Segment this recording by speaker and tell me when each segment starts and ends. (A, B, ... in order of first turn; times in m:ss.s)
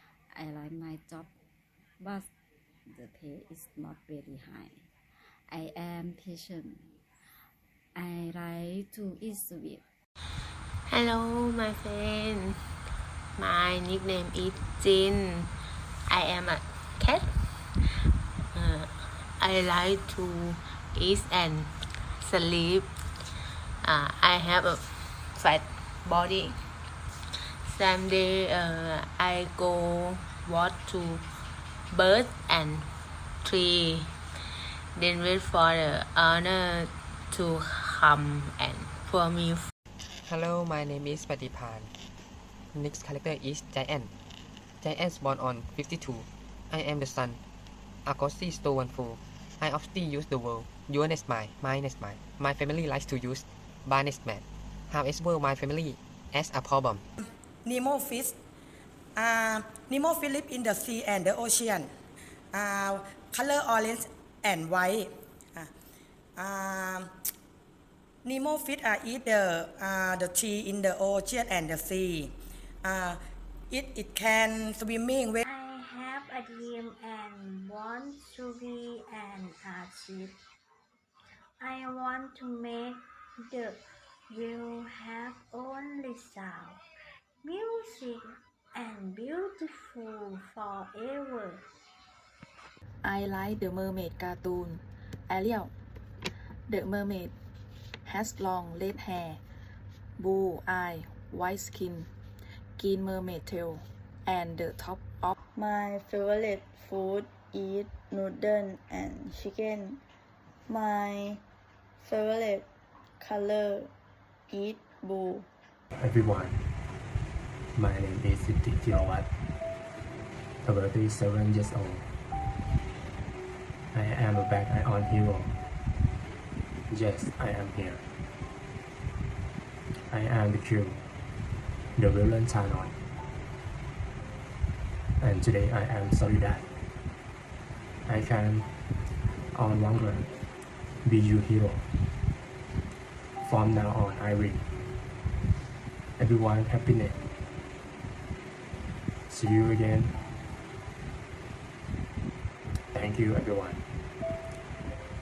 0:00.3-0:01.3 A
0:02.0-0:02.3 A
0:02.9-0:07.0 A
0:08.0-0:09.8 A
0:10.9-0:12.6 B
0:13.4-0:15.5 B
0:16.1-0:17.3 B
0:18.5-0:22.9 B
0:23.8-0:24.8 B
0:25.3-0:26.6 B
0:27.7-0:31.2 B
0:31.9-0:32.9 B
0:33.4-0:34.1 B
0:35.0-0:39.7 B
0:40.2-0:41.9 C
0:42.7-0:44.1 C
0:44.8-0:47.4 C
0:48.0-0:57.0 C
0:57.6-0:58.4 D
0:59.2-1:01.9 D
1:02.5-1:05.7 D
1:06.4-1:07.1 D
1:08.2-1:12.3 D
1:12.8-1:13.2 D
1:13.7-1:15.4 D
1:15.5-1:20.4 E
1:21.6-1:26.8 E
1:27.4-1:31.7 E
1:33.0-1:35.7 F
1:36.7-1:37.3 F
1:38.0-1:39.4 F
1:40.2-1:42.1 F
1:42.8-1:45.3 F
1:45.6-1:50.0 G
1:50.7-1:51.4 G
1:52.0-1:52.6 G
1:53.2-1:53.9 G
1:54.5-1:55.5 G
1:56.0-1:56.6 H
1:57.8-1:59.3 H
2:00.6-2:02.1 H
2:03.9-2:05.6 H
2:06.9-2:08.0 H
2:10.1-2:11.0 H
2:12.0-2:13.0 H
2:15.2-2:16.7 H
2:18.1-2:18.7 H
2:19.6-2:20.3 H
2:21.0-2:21.9 H
2:23.4-2:24.7 H
2:26.2-2:27.2 H
2:29.3-2:30.1 H
2:32.9-2:33.8 H